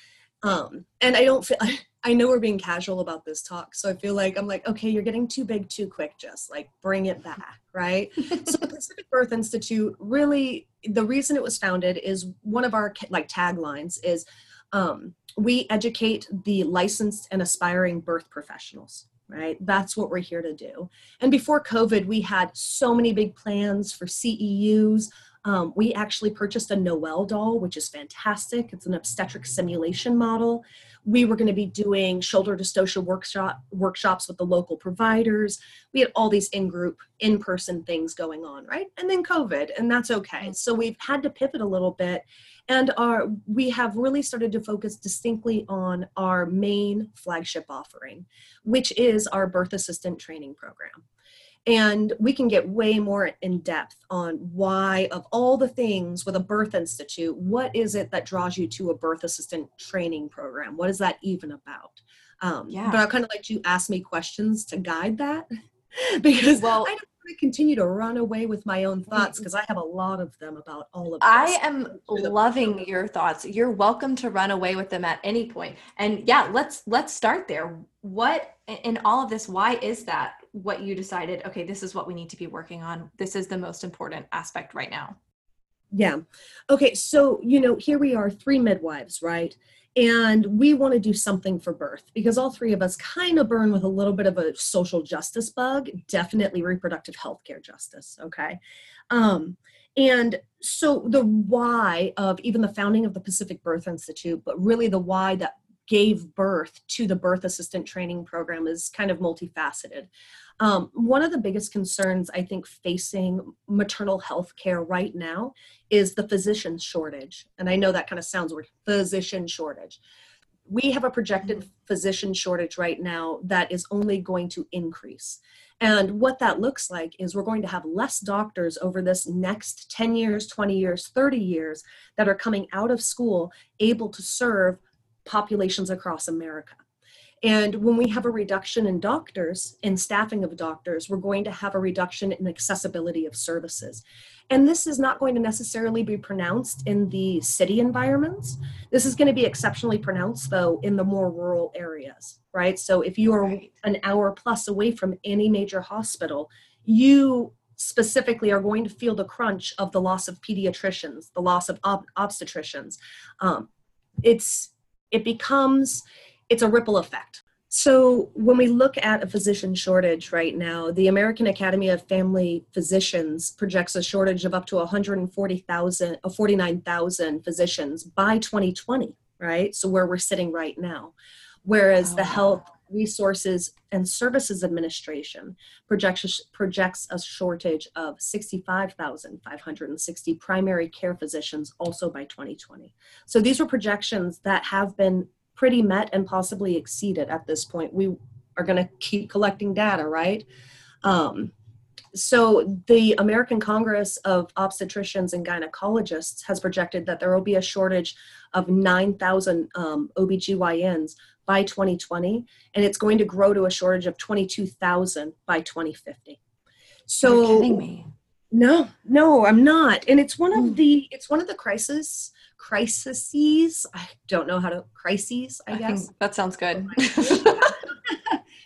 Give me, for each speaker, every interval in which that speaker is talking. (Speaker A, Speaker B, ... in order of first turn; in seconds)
Speaker A: 0.4-51.0, 51.7-72.4, 85.9-98.6, 99.1-110.1, 110.6-120.0, 120.7-136.8, 137.4-163.7, 164.2-181.1, 181.7-200.5, 201.0-201.5, 202.1-216.4, 217.1-217.8, 218.5-226.1, 226.8-228.4
Speaker B: 62.7-63.0, 66.5-66.9, 71.2-85.2, 153.4-153.7, 182.0-182.6, 217.2-218.1, 225.7-227.8